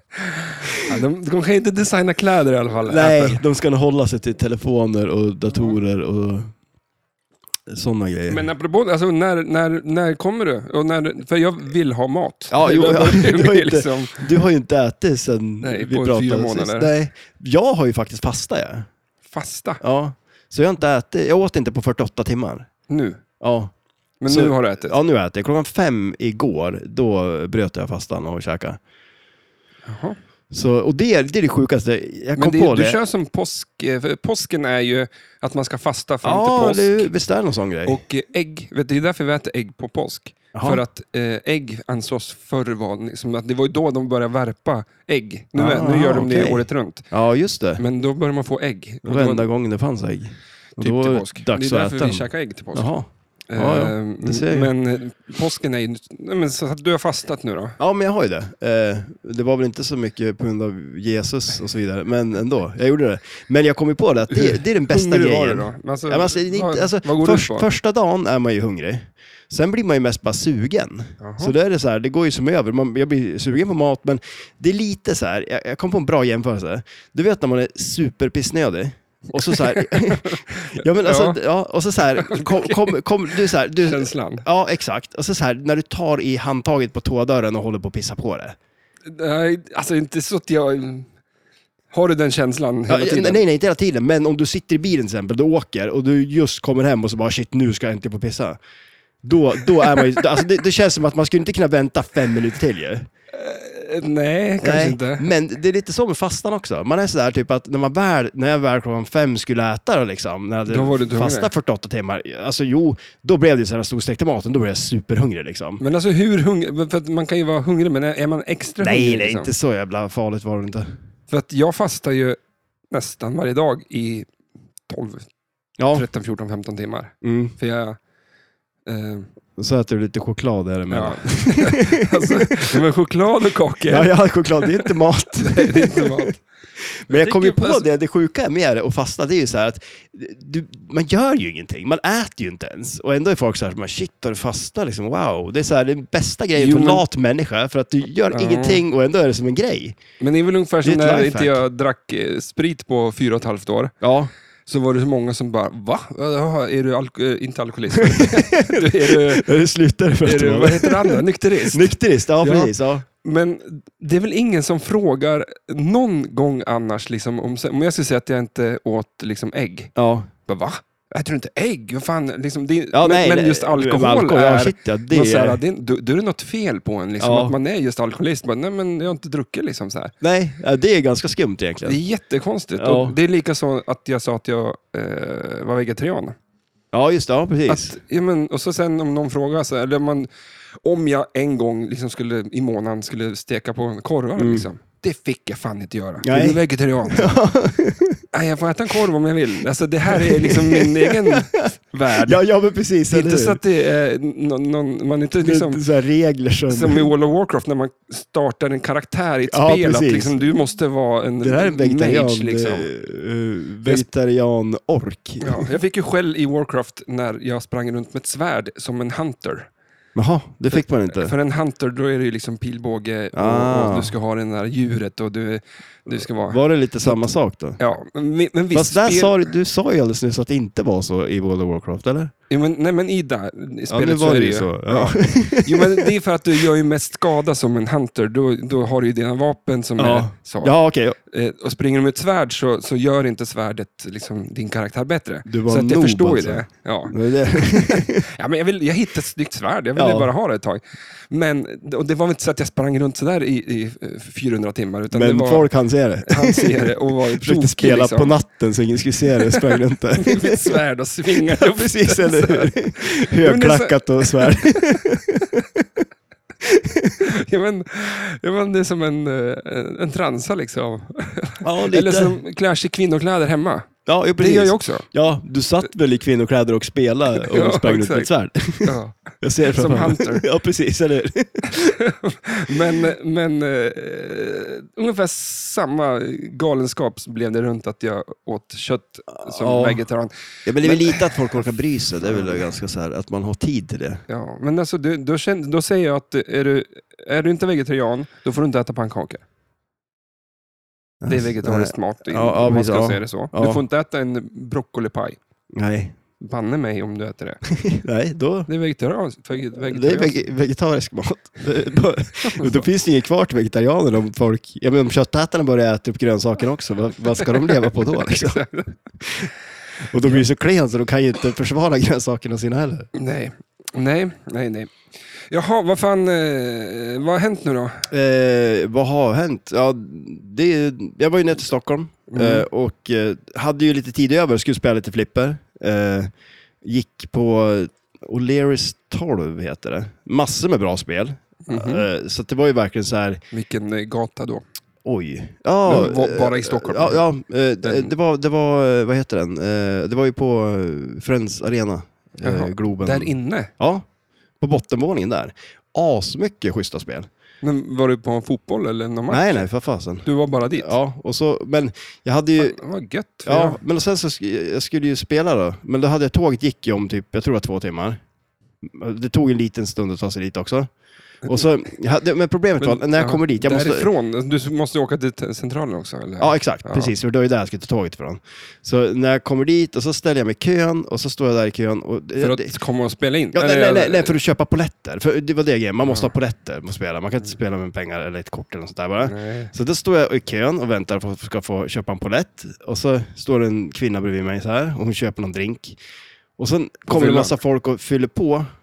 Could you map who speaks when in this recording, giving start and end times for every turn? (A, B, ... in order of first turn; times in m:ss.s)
0:00.2-0:03.4 A
0:00.6-0:01.0 B
0:02.9-0:06.5 B
0:07.7-0:08.5 B
0:08.3-0:14.3 A
0:12.5-0:18.9 B
0:15.6-0:16.9 A
0:19.3-0:19.8 A
0:19.8-0:22.7 B
0:22.9-0:23.2 A
0:23.4-0:23.7 B
0:24.2-0:24.9 A
0:24.3-0:28.8 B
0:29.9-0:30.2 A
0:30.5-0:33.0 B
0:32.4-0:37.1 A
0:36.2-0:38.0 B
0:37.9-0:47.1 A
0:40.5-0:40.8 B
0:45.5-0:47.8 B
0:47.8-0:49.5 A
0:49.0-0:54.7 B
0:50.8-0:52.9 A
0:53.5-0:57.8 A
0:57.8-1:28.6 B
1:04.3-1:07.7 A
1:11.2-1:11.5 A
1:19.3-1:21.4 A
1:22.2-1:24.5 A
1:29.1-1:31.1 A
1:31.9-1:33.4 A
1:32.9-1:38.6 B
1:39.2-1:43.1 B
1:43.3-1:45.3 A
1:44.6-1:55.8 B
1:50.7-1:51.5 A
1:55.8-1:59.5 A
1:58.8-2:00.9 B
2:01.3-2:02.4 A
2:02.9-2:04.3 A
2:04.9-2:05.3 A
2:05.8-2:06.1 B
2:05.9-2:08.0 A
2:07.2-2:07.5 B
2:08.9-2:09.3 A
2:09.6-2:12.8 B
2:10.9-2:16.4 A
2:13.9-2:30.0 B
2:17.1-2:17.9 A
2:26.6-2:27.0 A
2:28.3-2:28.8 A
2:30.2-2:34.0 A
2:30.8-2:31.6 B
2:34.0-2:34.3 B
2:34.7-2:39.5 A
2:38.0-2:43.0 B
2:40.2-2:49.9 A
2:50.0-2:50.3 B
2:50.4-3:00.1 A
2:52.9-2:55.6 B
2:57.2-2:57.6 B
3:00.2-3:02.0 B
3:01.8-3:06.4 A
3:02.8-3:03.2 B
3:06.9-3:08.0 B
3:07.7-3:10.3 A
3:10.8-3:17.3 A
3:14.4-3:14.7 B
3:16.2-3:18.2 B
3:18.3-3:22.4 A
3:20.1-3:23.6 B
3:23.1-3:25.8 A
3:25.4-3:27.1 B
3:26.7-3:32.9 A
3:29.5-3:30.4 B
3:31.4-3:35.7 B
3:35.4-3:39.7 A
3:40.2-3:41.3 B
3:40.7-3:49.5 A
3:43.4-3:44.1 B
3:46.1-3:47.8 B
3:48.7-3:52.3 B
3:52.5-4:00.7 A
3:53.9-3:56.1 B
4:00.0-4:01.2 B
4:01.3-4:15.7 A
4:05.5-4:08.3 B
4:10.0-4:10.3 B
4:15.1-4:20.8 B
4:16.3-4:18.4 A
4:19.4-4:25.2 A
4:21.3-4:26.0 B
4:26.6-4:27.3 B
4:27.2-4:35.1 A
4:31.6-4:32.4 B
4:34.1-4:41.9 B
4:37.4-4:38.3 A
4:38.8-4:40.4 A
4:41.7-4:51.6 A
4:49.4-4:50.0 B
4:50.7-4:54.2 B
4:54.3-4:59.4 A
5:01.2-5:03.8 B
5:01.3-5:05.4 A
5:05.8-5:06.2 B
5:06.4-5:07.6 A
5:07.7-5:08.7 B
5:08.7-5:10.4 A
5:09.8-5:18.6 B
5:12.5-5:12.8 A
5:17.4-5:19.0 A
5:19.2-5:19.5 B
5:20.1-5:23.1 B
5:23.2-5:25.0 A
5:25.5-5:28.1 A
5:28.1-5:36.3 B
5:32.3-5:32.7 A
5:36.8-5:43.4 B
5:41.7-5:42.1 A
5:43.5-5:44.6 A
5:45.0-5:54.0 B
5:45.9-5:47.2 A
5:47.8-5:48.1 A
5:52.4-5:53.7 A
5:54.6-5:57.3 B
5:57.6-5:59.6 A
5:59.3-6:02.8 B
6:00.2-6:01.0 A
6:02.6-6:03.8 A
6:03.5-6:08.2 B
6:08.8-6:10.9 B
6:11.5-6:14.1 B
6:12.8-6:17.1 A
6:16.4-6:22.7 B
6:22.4-6:24.4 A
6:23.5-6:36.0 B
6:26.0-6:26.3 A
6:29.2-6:29.7 A
6:36.6-6:38.7 B
6:37.1-6:37.6 A